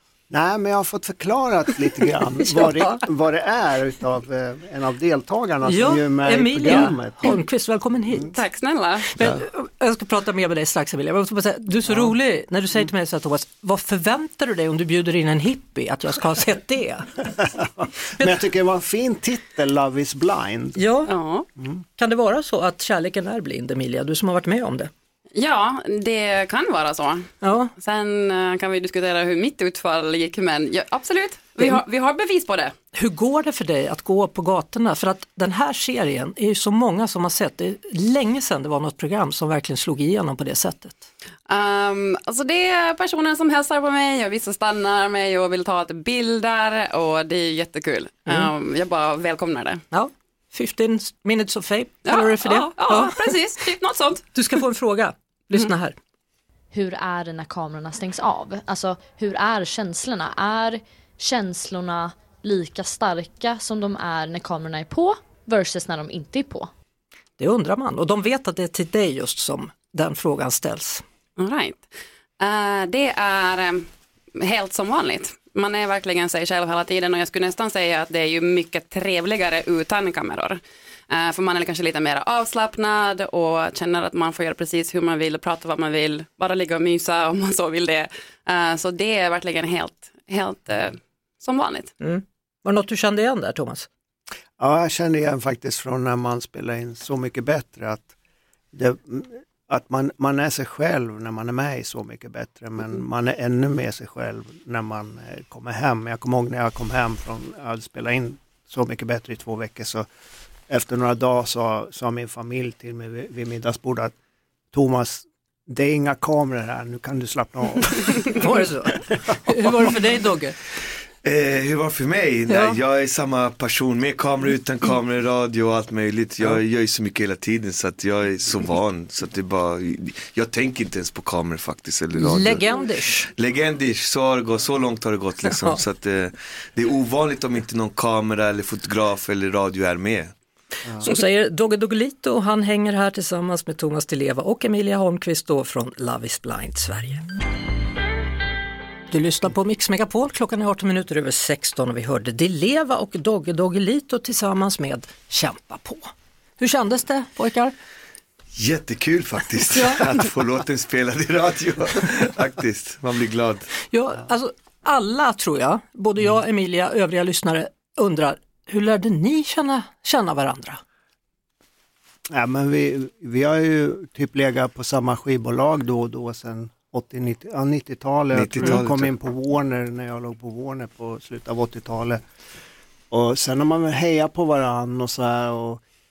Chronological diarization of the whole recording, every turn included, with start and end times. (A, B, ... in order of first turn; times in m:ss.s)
0:00.3-0:07.4 A
0:02.5-0:03.0 B
0:05.6-0:08.3 B
0:08.3-0:09.0 C
0:09.1-0:17.3 B
0:17.4-0:20.8 A
0:20.8-0:21.1 B
0:21.1-0:21.4 C
0:22.0-0:24.9 B
0:25.3-0:32.7 C
0:27.4-0:27.7 B
0:32.9-0:41.0 B
0:41.5-0:49.8 C
0:49.9-0:53.3 B
0:52.1-0:54.2 C
0:54.3-0:56.0 B
0:56.7-1:06.7 D
1:07.4-1:11.0 B
1:11.4-1:11.9 C
1:12.4-1:31.9 C
1:32.0-1:33.9 B
1:34.6-1:38.1 A
1:38.7-1:50.1 A
1:50.7-1:54.1 A
1:54.7-1:58.4 A
1:58.3-2:00.6 B
2:01.2-2:12.6 E
2:02.5-2:02.8 B
2:12.1-2:13.3 B
2:13.3-2:20.3 E
2:15.5-2:15.8 B
2:21.0-2:27.2 B
2:29.1-2:37.7 B
2:38.5-2:43.7 E
2:39.7-2:40.0 B
2:43.9-2:50.8 B
2:52.3-3:02.2 A
2:58.3-2:59.1 E
3:03.1-3:05.8 A